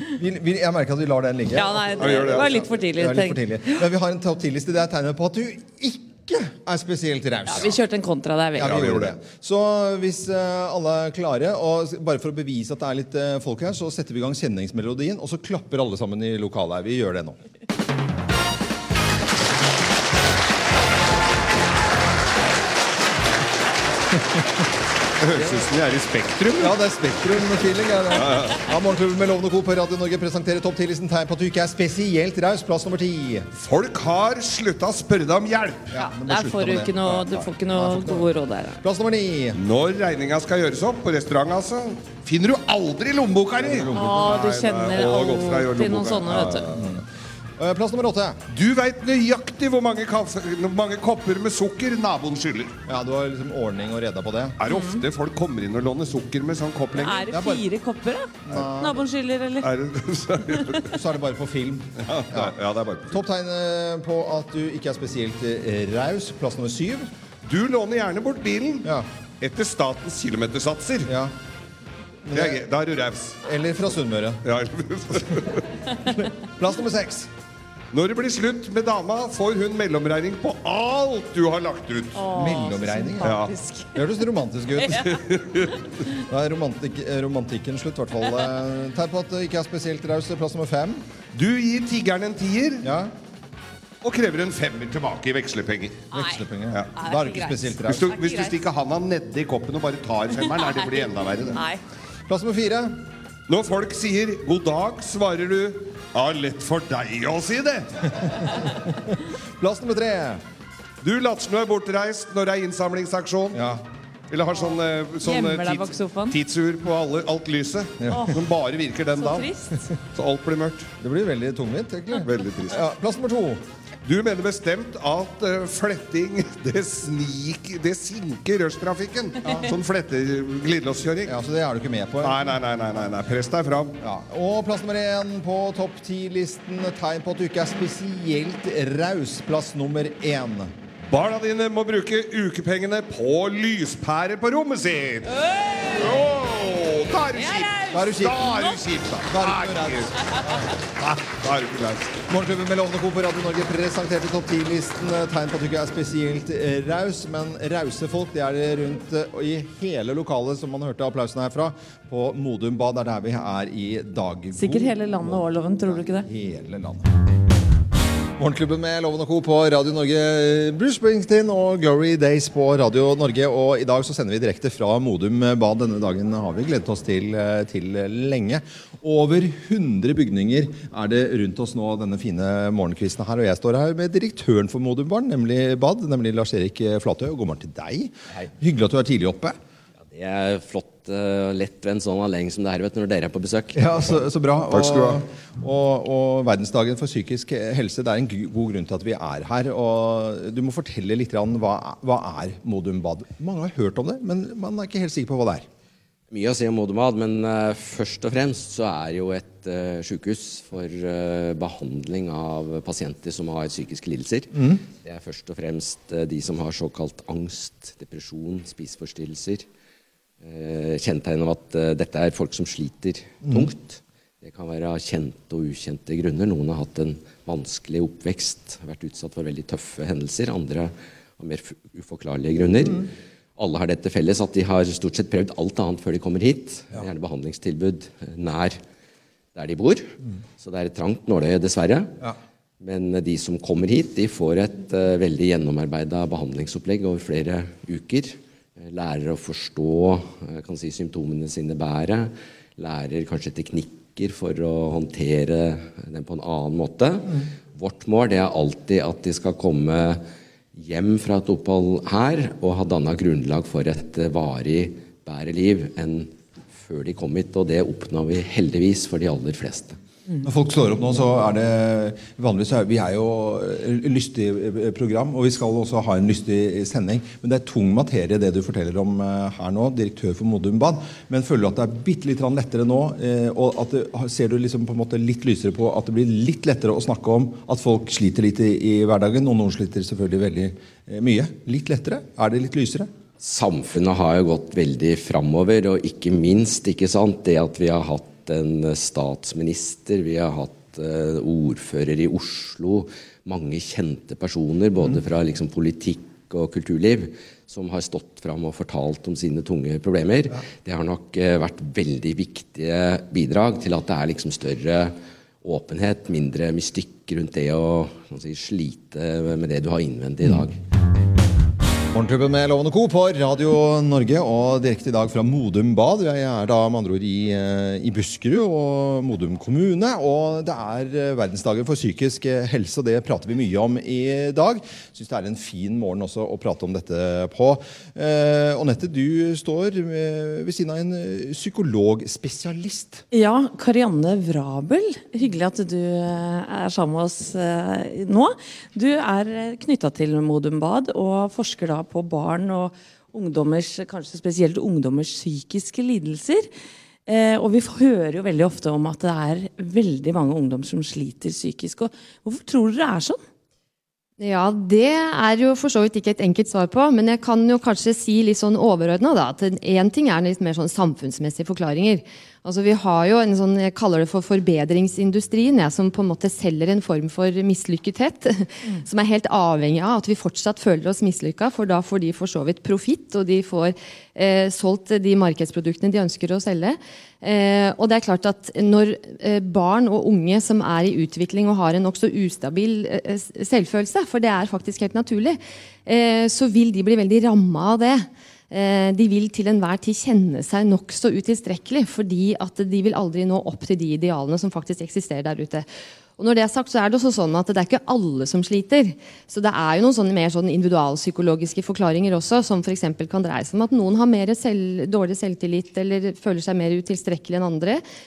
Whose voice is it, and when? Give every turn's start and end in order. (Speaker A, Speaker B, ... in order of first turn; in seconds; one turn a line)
Speaker A: 0.2-7.7
Speaker B: 1.5-3.8
Speaker C: 2.0-2.6
Speaker B: 7.5-8.8
Speaker C: 8.6-9.2
Speaker A: 8.6-17.4
Speaker C: 25.2-26.8
Speaker A: 26.6-33.5
Speaker C: 28.1-28.6
Speaker C: 33.6-35.9
Speaker A: 35.9-38.3
Speaker B: 36.0-38.8
Speaker A: 38.8-39.6
Speaker C: 39.6-46.9
Speaker A: 43.6-43.9
Speaker B: 43.9-46.7
Speaker A: 46.7-47.0
Speaker A: 47.6-48.4
Speaker C: 48.5-52.7
Speaker A: 52.9-54.6
Speaker C: 54.6-57.3
Speaker B: 54.7-55.0
Speaker B: 57.0-59.7
Speaker A: 57.3-57.6
Speaker A: 58.5-59.0
Speaker C: 59.6-60.8
Speaker A: 60.9-62.5
Speaker C: 62.0-63.2
Speaker A: 63.1-67.1
Speaker C: 67.5-68.9
Speaker C: 69.4-71.1
Speaker A: 71.1-71.3
Speaker A: 72.3-72.6
Speaker C: 72.3-73.4
Speaker A: 73.4-74.4
Speaker C: 74.4-75.7
Speaker A: 76.2-77.3
Speaker C: 77.9-82.3
Speaker B: 82.2-83.9
Speaker A: 82.3-85.1
Speaker C: 83.2-83.5
Speaker C: 84.9-85.8
Speaker A: 86.3-91.0
Speaker C: 91.3-92.9
Speaker A: 92.8-93.1
Speaker C: 94.0-96.1
Speaker A: 96.1-98.1
Speaker B: 96.1-96.4
Speaker C: 96.7-97.0
Speaker B: 97.0-98.5
Speaker C: 97.8-101.6
Speaker B: 100.3-101.8
Speaker A: 102.3-103.0
Speaker C: 103.5-107.9
Speaker A: 108.2-110.4
Speaker C: 111.0-113.6
Speaker A: 113.5-113.8
Speaker C: 114.3-119.5
Speaker B: 115.2-116.4
Speaker A: 118.0-118.3
Speaker B: 119.2-119.7
Speaker C: 120.1-120.9
Speaker A: 121.0-123.6
Speaker C: 122.2-122.8
Speaker C: 124.0-131.3
Speaker A: 129.4-129.7
Speaker A: 131.3-132.4
Speaker C: 132.2-134.0
Speaker A: 134.0-140.7
Speaker C: 141.1-150.1
Speaker B: 147.3-148.8
Speaker A: 147.9-148.6
Speaker A: 149.3-150.7
Speaker C: 151.0-152.2
Speaker A: 152.3-167.1
Speaker B: 164.6-166.3
Speaker A: 168.4-189.6
Speaker D: 190.0-194.2
Speaker A: 193.8-205.7
Speaker C: 194.7-195.2
Speaker D: 206.3-219.7
Speaker A: 214.6-214.8
Speaker D: 220.4-238.8
Speaker A: 223.4-223.7
Speaker D: 239.6-242.2
Speaker D: 242.8-260.2
Speaker D: 260.8-270.0
Speaker A: 270.4-293.1
Speaker D: 293.4-320.8
Speaker A: 322.1-343.2
Speaker B: 343.3-356.7
Speaker B: 357.3-363.4
Speaker E: 364.4-405.9
Speaker E: 406.4-418.0